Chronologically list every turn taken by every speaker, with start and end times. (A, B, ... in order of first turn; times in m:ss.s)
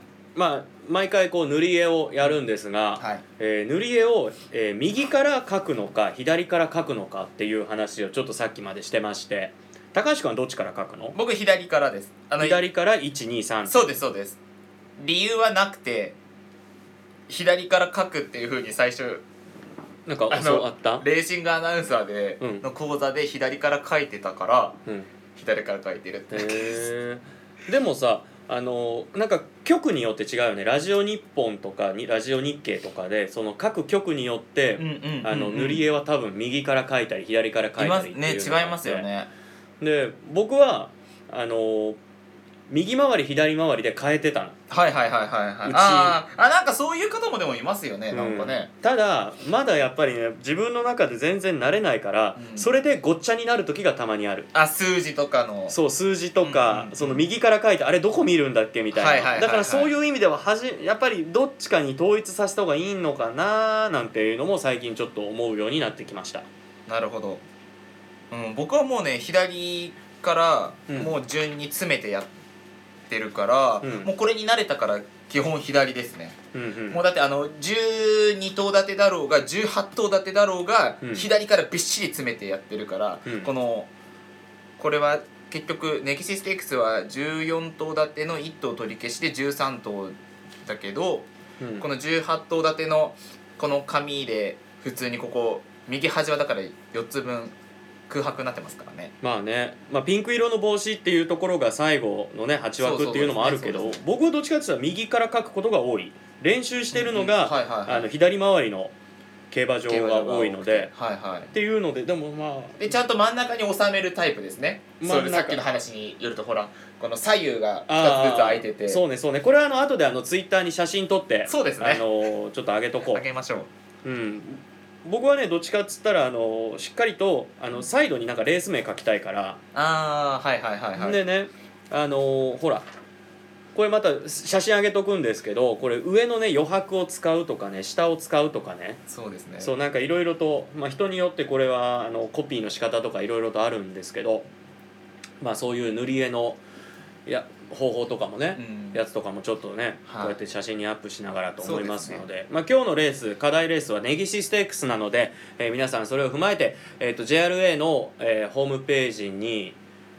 0:00.4-0:11.2 A
0:03.0-0:03.2 B
0:11.1-0:12.6 B
0:12.4-0:13.8 A
0:13.7-0:14.4 B
0:15.0-0:16.2 B
0:17.3-0:19.2 B
0:20.1-0:21.0 A
0:20.3-0:24.8 B
0:25.3-0:26.8 B
0:26.3-0:39.1 A
0:34.8-0:35.8 B
0:37.8-0:39.3 B
0:39.8-0:42.0 A
0:42.7-0:44.6 A
0:44.7-0:48.7 B
0:45.6-0:46.2 A
0:48.1-0:54.5 A
0:52.4-0:52.7 B
0:54.5-0:55.8 B
0:55.7-1:06.4 A
0:56.4-0:57.3 B
0:58.9-0:59.9 B
1:06.9-1:07.4 B
1:08.3-1:12.3 B
1:10.9-1:11.1 A
1:13.1-1:16.4 B
1:13.8-1:14.1 A
1:16.5-1:17.0 A
1:16.9-1:23.9 B
1:24.8-1:31.3 B
1:31.6-1:31.8 A
1:31.8-1:37.5 B
1:38.1-1:39.1 B
1:39.2-1:48.9 A
1:42.8-1:44.0 B
1:46.9-1:48.1 B
1:49.5-1:50.9 A
1:49.9-1:51.5 B
1:51.5-1:52.9 A
1:52.8-1:59.0 B
1:55.0-1:55.6 A
1:57.9-2:03.2 A
2:01.5-2:02.0 B
2:03.1-2:03.7 B
2:04.0-2:09.6 A
2:09.7-2:11.2 B
2:11.0-2:12.8 A
2:13.7-2:19.0 A
2:19.1-2:19.7 B
2:19.6-2:24.4 A
2:25.4-2:26.6 A
2:27.2-2:39.8 A
2:28.6-2:29.0 B
2:30.1-2:30.4 B
2:31.6-2:32.2 B